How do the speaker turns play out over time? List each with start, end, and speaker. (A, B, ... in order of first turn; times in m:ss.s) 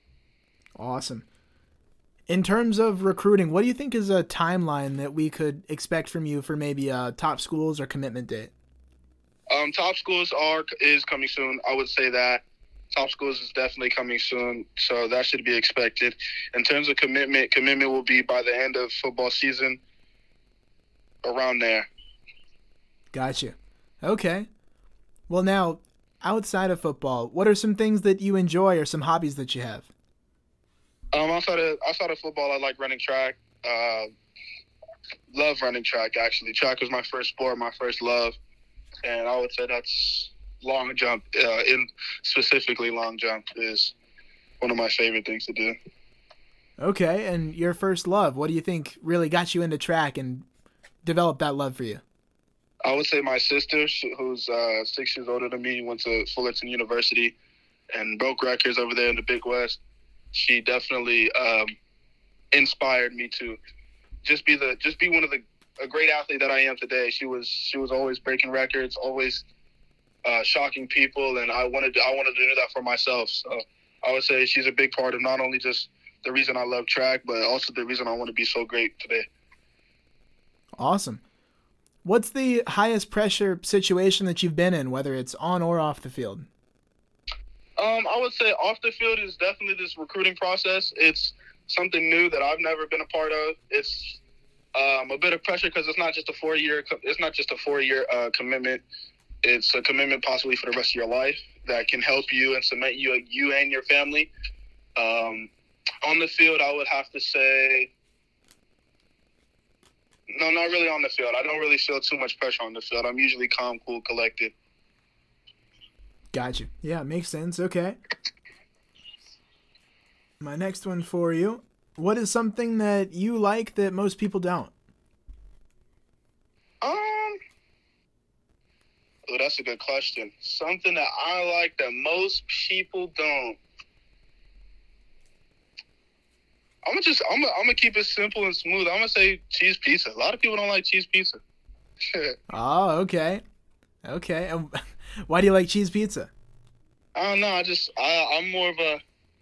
0:00.8-0:01.2 A
0:02.3-0:08.5 A
0:09.5-0:19.8 B
0:21.2-0:21.9 B
0:23.1-0:24.5 A
0:25.3-0:29.9 A
0:31.1-0:34.1 B
0:35.3-0:38.4 B
0:39.0-0:43.9 B
0:44.6-0:45.8 B
0:46.8-0:50.4 A
0:51.0-0:52.0 A
0:52.8-0:57.3 B
0:57.9-0:59.8 B
1:00.3-1:01.7 B
1:02.5-1:03.6 B
1:04.2-1:09.4 B
1:10.2-1:19.3 B
1:20.8-1:21.2 A
1:22.0-1:26.5 A
1:27.8-1:34.2 B
1:34.7-1:38.8 B
1:39.4-1:44.3 B
1:45.0-1:45.5 B
1:46.0-1:47.9 B
1:50.3-1:54.5 B
1:56.3-1:58.0 A
2:00.4-2:04.7 A
2:06.8-2:07.4 B
2:09.3-2:13.6 B
2:16.8-2:21.4 B
2:22.1-2:22.3 B
2:22.5-2:23.4 A
2:24.0-2:26.3 A
2:27.2-2:29.0 B